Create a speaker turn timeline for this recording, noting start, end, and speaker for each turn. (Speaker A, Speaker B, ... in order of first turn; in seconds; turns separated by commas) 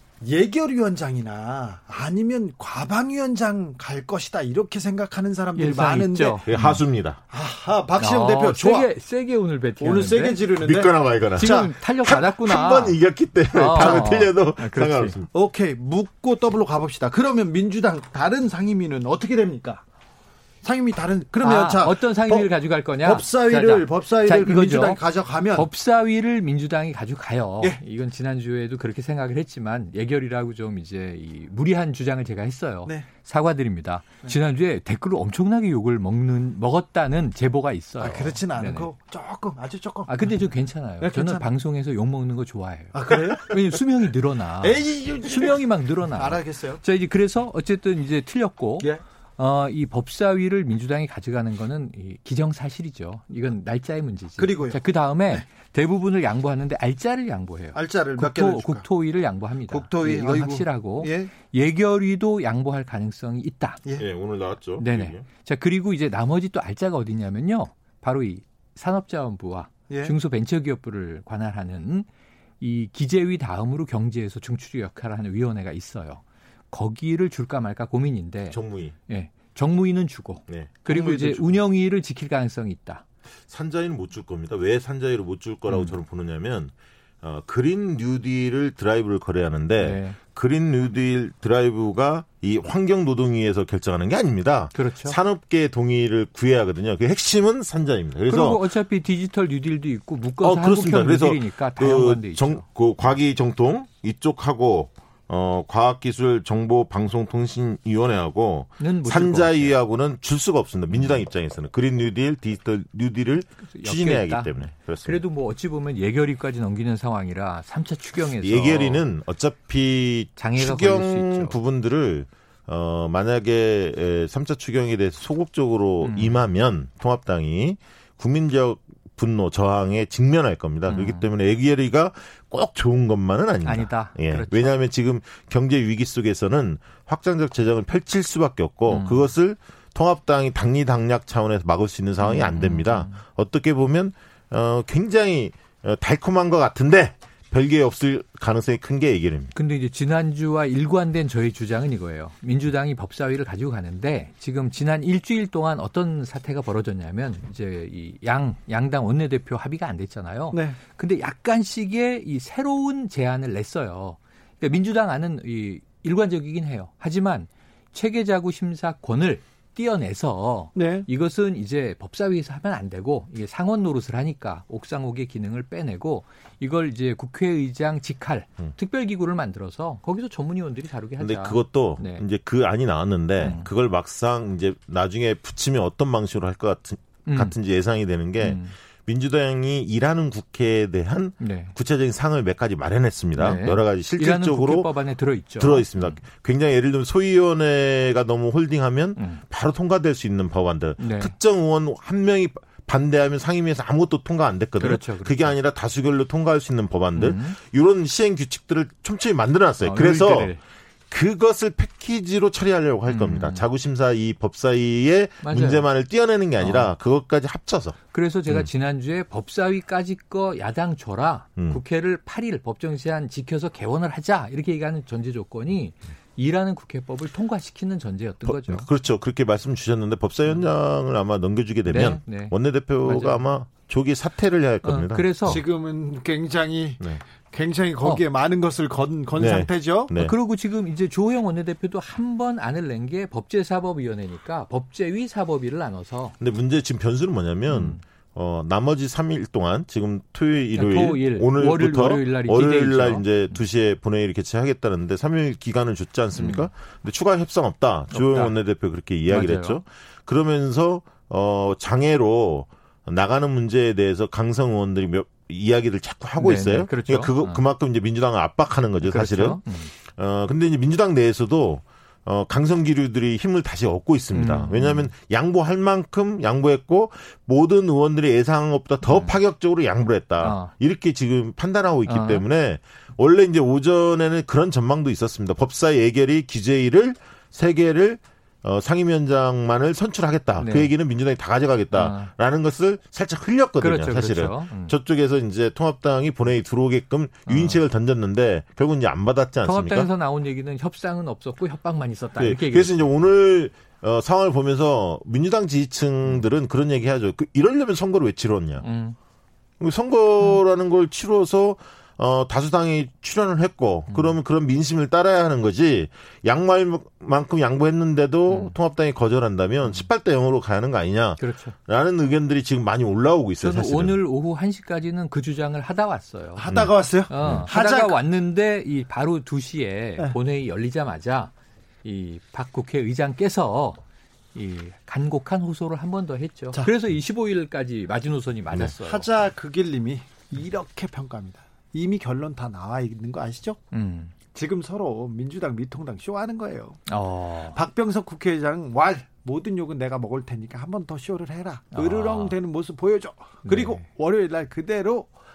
Speaker A: 0.2-6.4, Speaker B: 5.5-6.8, Speaker C: 6.5-7.2, Speaker A: 7.3-8.9, Speaker B: 8.0-10.4, Speaker A: 9.8-11.7, Speaker C: 10.6-15.3, Speaker B: 11.3-13.0, Speaker B: 13.5-15.2, Speaker A: 13.8-14.1, Speaker A: 15.3-19.8, Speaker A: 20.6-22.5, Speaker B: 21.4-25.0, Speaker A: 23.0-25.7, Speaker B: 25.5-38.9, Speaker A: 38.0-40.3, Speaker B: 40.1-63.8, Speaker A: 41.0-41.5, Speaker A: 42.9-43.6, Speaker A: 44.6-46.8, Speaker A: 54.4-54.8, Speaker A: 57.7-58.9, Speaker A: 59.7-61.3, Speaker C: 64.0-65.2, Speaker B: 64.8-72.1, Speaker A: 69.9-70.2, Speaker B: 72.6-83.0, Speaker C: 78.5-78.9, Speaker C: 80.5-81.5, Speaker A: 80.9-81.3, Speaker C: 83.5-98.6, Speaker B: 85.7-85.9, Speaker B: 89.8-90.2, Speaker B: 94.7-95.2, Speaker B: 98.3-102.6, Speaker C: 100.4-115.2, Speaker B: 108.8-109.7, Speaker B: 113.7-119.0, Speaker C: 118.4-149.5, Speaker B: 120.4-121.6, Speaker B: 126.0-126.3, Speaker B: 130.9-131.2, Speaker B: 133.6-134.8, Speaker B: 138.9-139.3, Speaker B: 142.2-143.2, Speaker B: 149.5-182.2, Speaker A: 160.5-160.8, Speaker A: 170.8-171.1, Speaker C: 181.2-194.9, Speaker B: 183.4-183.7, Speaker B: 187.2-187.5, Speaker B: 188.4-188.7, Speaker B: 191.4-191.7, Speaker B: 193.4-196.2, Speaker C: 195.6-210.5, Speaker B: 199.2-199.4, Speaker B: 201.0-201.3, Speaker B: 204.8-205.5, Speaker B: 207.1-207.6, Speaker B: 209.8-210.6, Speaker C: 211.1-218.0, Speaker B: 213.1-213.6, Speaker B: 215.4-215.8, Speaker B: 216.6-216.9, Speaker B: 218.1-228.9, Speaker C: 228.4-235.6, Speaker B: 231.8-233.4, Speaker B: 234.8-235.6, Speaker A: 235.4-240.1, Speaker C: 239.3-240.3, Speaker B: 240.1-246.4, Speaker C: 246.4-300.1, Speaker B: 247.7-248.0, Speaker B: 250.7-253.6, Speaker B: 256.4-256.7, Speaker B: 258.1-258.5, Speaker B: 259.3-259.8, Speaker B: 266.4-267.6, Speaker B: 269.0-269.9, Speaker B: 274.3-275.1, Speaker B: 279.0-279.3, Speaker B: 280.4-280.7, Speaker B: 282.1-282.4, Speaker B: 290.6-290.9, Speaker B: 291.9-292.3, Speaker B: 293.8-294.9, Speaker B: 297.5-297.8, Speaker B: 299.6-303.1, Speaker C: 302.3-308.8, Speaker B: 308.8-309.1, Speaker C: 309.8-324.2, Speaker B: 314.1-314.4, Speaker B: 318.5-318.7, Speaker B: 321.4-321.7, Speaker B: 323.6-326.7, Speaker A: 326.6-328.2, Speaker C: 326.7-327.7, Speaker B: 327.3-331.5, Speaker B: 332.0-334.0, Speaker B: 334.5-339.3, Speaker A: 338.7-343.8, Speaker B: 343.9-344.3, Speaker A: 344.5-347.0, Speaker B: 347.1-347.8, Speaker A: 347.7-355.3, Speaker B: 351.9-352.6, Speaker B: 353.6-354.0